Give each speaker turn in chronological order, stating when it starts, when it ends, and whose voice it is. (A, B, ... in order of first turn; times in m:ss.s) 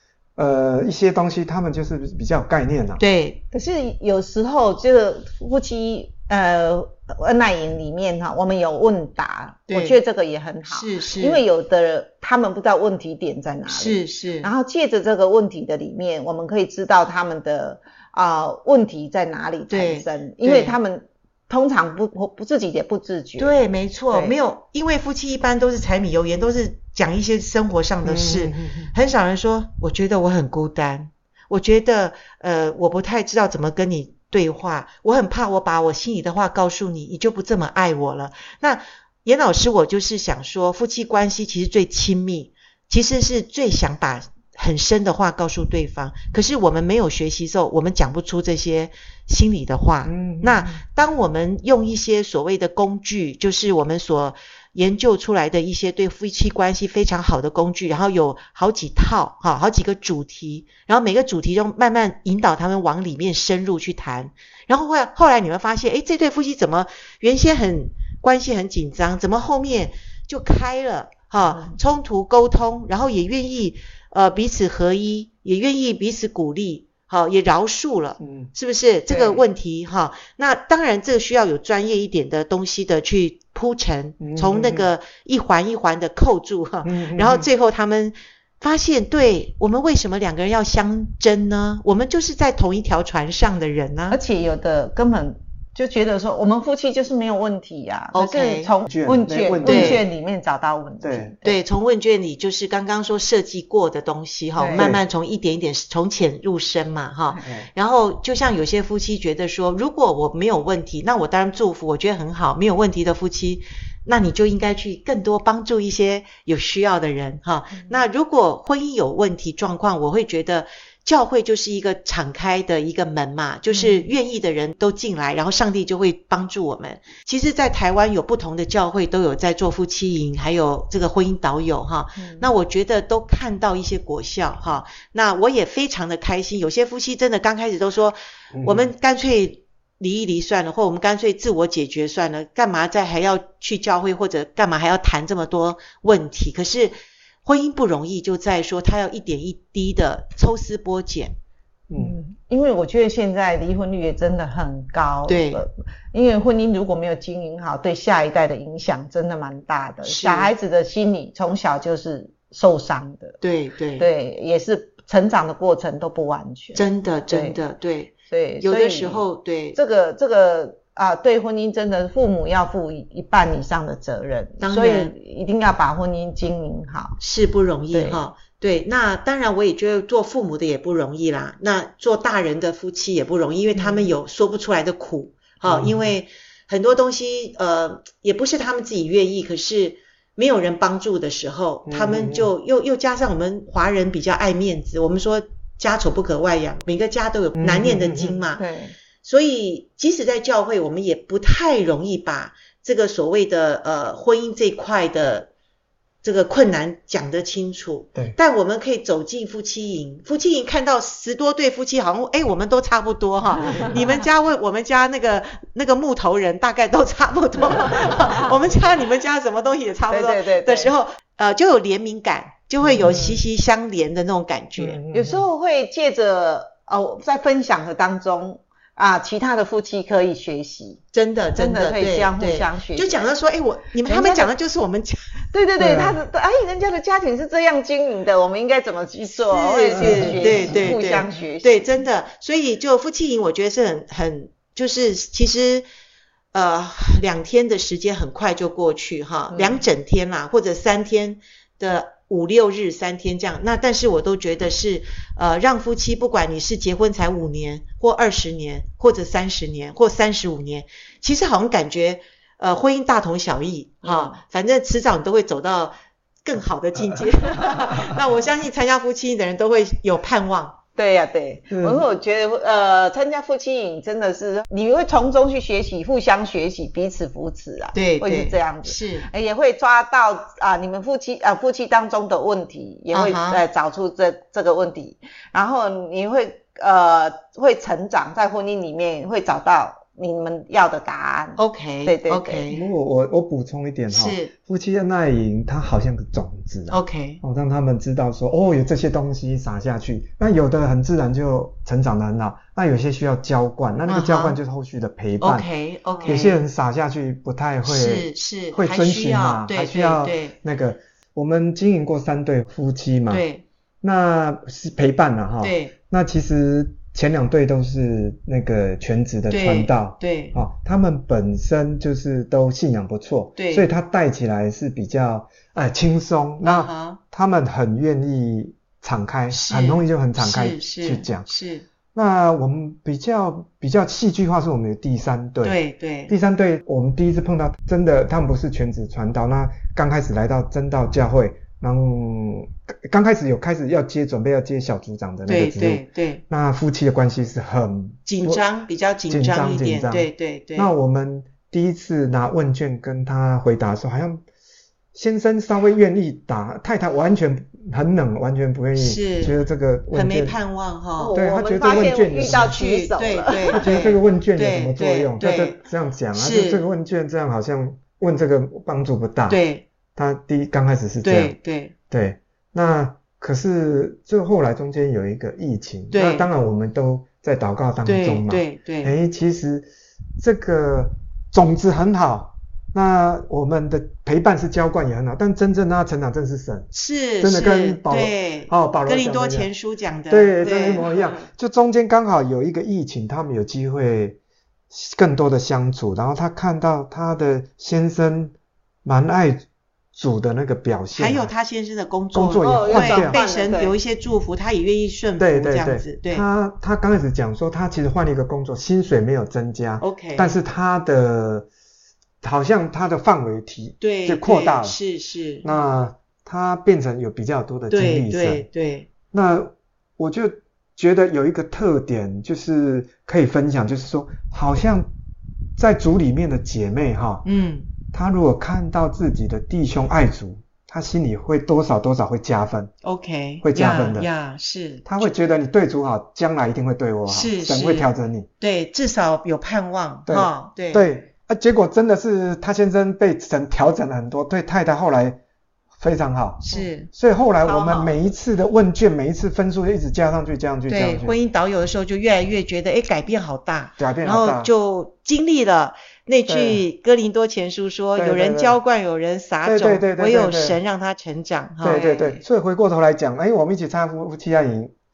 0:00.4-0:03.0 A
0:03.0-0:03.4 B
0:03.5-0:24.4 C
0:09.7-0:10.0 B
0:10.7-0:11.4 B
0:13.7-0:14.5 B
0:19.7-0:20.8 B
0:23.4-1:34.2 B
0:28.0-0:28.9 A
0:50.0-0:50.8 A
1:11.4-1:11.8 C
1:18.2-1:18.5 A
1:19.1-1:19.4 C
1:24.2-1:24.9 A
1:26.8-1:27.5 A
1:34.1-1:41.6 C
1:38.1-1:38.7 B
1:38.9-1:40.1 A
1:39.6-1:40.0 B
1:41.0-1:41.3 A
1:41.4-2:31.4 B
1:44.6-1:44.9 C
1:44.8-1:45.0 A
1:47.4-1:47.7 A
2:03.7-2:04.1 C
2:12.2-2:12.5 C
2:18.5-2:18.9 A
2:32.0-2:43.4 C
2:35.3-2:35.6 B
2:40.0-2:40.5 B
2:43.4-2:44.1 B
2:44.0-2:47.6 C
2:46.8-2:49.8 B
2:48.3-2:57.2 C
2:54.6-2:55.1 B
2:57.2-3:18.6 B
2:57.9-2:58.2 C
3:03.7-3:04.1 C
3:05.6-3:06.1 A
3:11.9-3:12.5 A
3:17.6-3:18.4 A
3:18.6-3:19.0 C
3:19.2-3:25.5 B
3:26.2-3:45.0 B
3:33.7-3:34.0 A
3:40.1-3:40.9 C
3:42.8-3:43.3 A
3:43.0-3:43.4 C
3:45.0-3:45.4 A
3:45.0-3:51.0 C
3:51.1-3:55.3 B
3:51.6-3:53.3 C
3:54.0-3:54.5 C
3:55.5-4:01.9 C
3:55.8-3:56.2 A
3:59.4-4:05.9 B
4:00.0-4:00.9 A
4:06.5-4:30.8 B
4:09.5-4:09.9 C
4:24.0-4:24.4 C
4:31.0-4:52.7 C
4:31.7-4:32.1 A
4:37.9-4:39.3 B
4:43.1-4:43.6 B
4:51.6-4:52.8 B
4:52.7-5:05.7 A
4:54.1-4:54.5 B
4:56.9-4:57.4 B
5:04.1-5:04.6 B
5:05.4-5:06.5 B
5:06.2-5:06.5 C
5:06.3-5:13.4 A
5:07.8-5:10.6 B
5:13.3-5:13.6 B
5:14.0-5:31.5 A
5:15.6-5:15.9 B
5:19.5-5:20.6 B
5:23.6-5:23.9 B
5:26.6-5:27.2 B
5:29.5-5:31.8 B
5:32.1-5:35.8 A
5:35.6-5:36.3 B
5:36.3-5:48.6 A
5:45.5-5:46.4 B
5:48.3-5:50.9 B
5:49.3-5:54.5 A
5:55.1-6:00.6 A
5:59.0-5:59.6 B
6:00.1-6:01.3 B
6:01.2-6:03.8 C
6:01.3-6:02.8 A
6:02.3-6:05.8 B
6:03.7-6:09.6 A
6:06.3-6:06.8 B
6:09.5-6:09.8 B
6:10.2-6:11.6 A
6:11.2-6:11.9 B
6:12.1-6:26.9 A
6:16.1-6:16.5 B
6:18.0-6:19.1 B
6:26.9-6:31.4 B
6:27.4-6:29.7 A
6:30.3-6:34.4 A
6:34.9-6:41.5 A
6:41.1-6:46.5 B
6:42.4-6:43.4 A
6:42.6-6:44.0 C
6:45.4-6:51.7 A
6:50.0-6:50.5 B
6:52.4-6:55.0 A
6:54.0-6:55.6 B
6:55.6-6:58.7 A
6:57.9-6:59.1 B
6:59.3-7:05.1 A
7:05.8-7:07.5 A
7:07.4-7:07.9 B
7:08.1-7:12.9 A
7:13.0-7:15.0 B
7:13.6-7:14.3 A
7:15.0-7:18.5 A
7:17.3-7:18.1 B
7:18.6-7:21.1 B
7:20.3-7:25.4 A
7:26.0-7:31.4 A
7:26.7-7:27.1 B
7:27.6-7:28.2 C
7:30.9-7:42.4 B
7:34.0-7:34.7 A
7:36.5-7:36.8 A
7:38.2-7:38.8 A
7:39.6-7:40.8 A
7:41.8-7:44.9 A
7:41.9-7:42.3 C